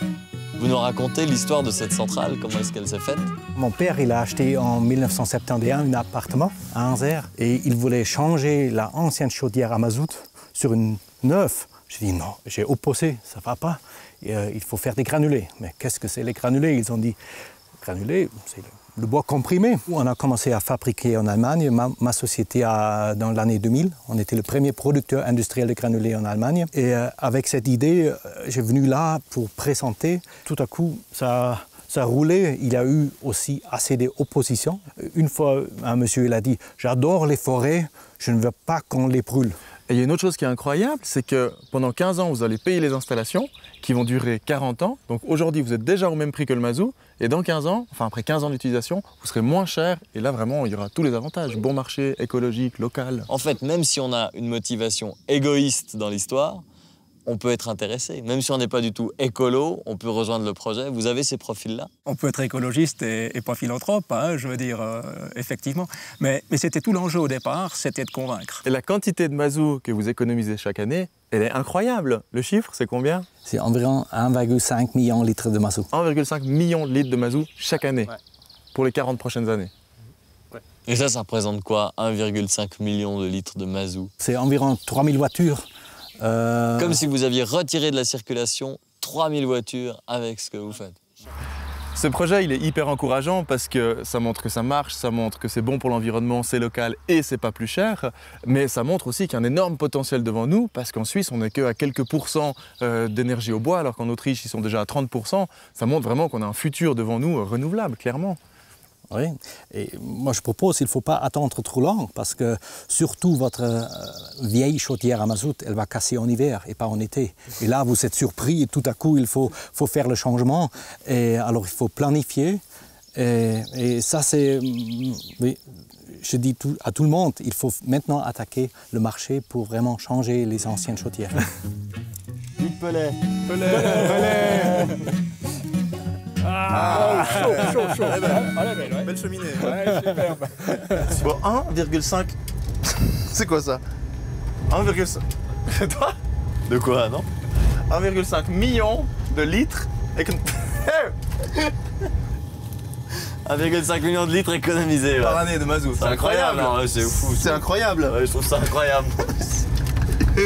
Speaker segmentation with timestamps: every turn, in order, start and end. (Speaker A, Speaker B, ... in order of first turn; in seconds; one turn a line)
Speaker A: 0.6-3.3
Speaker B: 3.5-17.2
Speaker B: 17.8-39.6
Speaker C: 39.9-53.3
Speaker A: 53.3-56.6
Speaker A: 57.3-61.9
Speaker D: 62.0-68.6
Speaker C: 68.7-73.3
Speaker B: 73.5-75.9
Speaker C: 75.9-78.1
Speaker C: 78.7-79.7
Speaker A: 80.8-84.1
Speaker B: 84.2-85.6
Speaker B: 86.2-87.0
Speaker A: 86.8-91.0
Speaker C: 92.0-108.4
Speaker B: 109.1-122.6
Speaker B: 123.2-131.4
Speaker A: 132.6-133.2
Speaker C: 133.5-134.8
Speaker D: 133.7-134.8
Speaker B: 133.8-134.9
Speaker D: 136.4-141.2
Speaker C: 136.7-139.8
Speaker C: 141.1-142.3
Speaker C: 142.9-143.8
Speaker C: 144.7-146.2
Speaker A: 146.7-147.3
Speaker C: 147.9-151.7
Speaker A: 153.4-159.5
Speaker C: 155.2-158.2